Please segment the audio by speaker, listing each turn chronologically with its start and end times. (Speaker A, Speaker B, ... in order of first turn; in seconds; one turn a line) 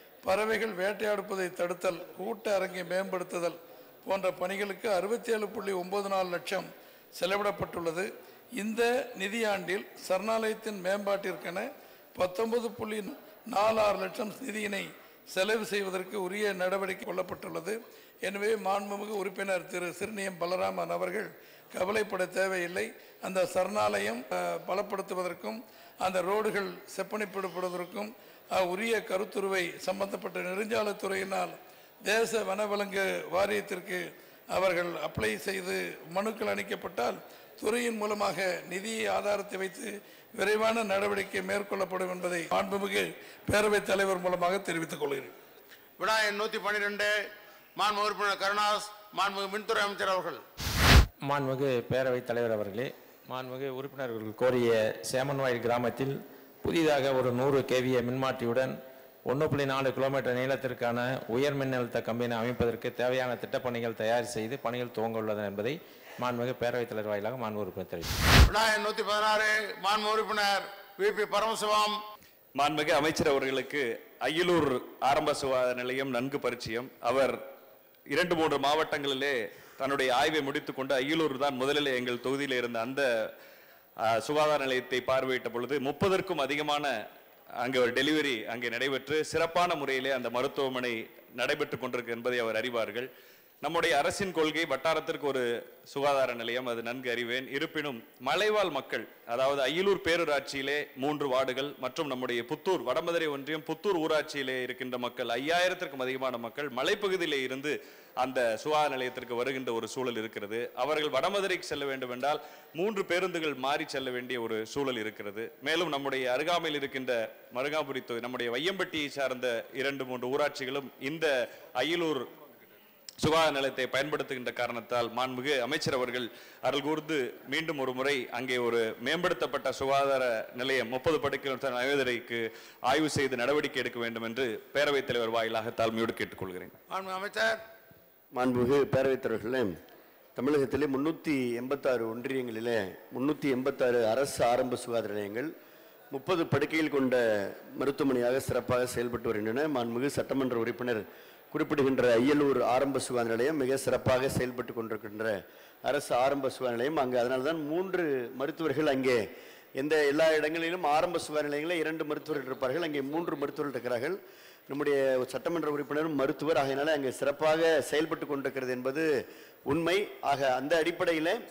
Speaker A: 0.2-45.3
Speaker B: 46.0-47.1
Speaker B: 47.8-50.4
Speaker C: 51.2-68.1
Speaker B: 68.5-72.0
Speaker D: 72.6-77.4
Speaker D: 78.1-83.0
Speaker D: 84.2-86.9
Speaker D: 87.6-93.1
Speaker D: 93.6-122.3
Speaker D: 123.2-136.7
Speaker B: 136.9-137.6
Speaker E: 138.3-139.7
Speaker E: 140.3-145.5
Speaker E: 146.1-159.2
Speaker E: 159.8-169.1
Speaker E: 169.7-171.4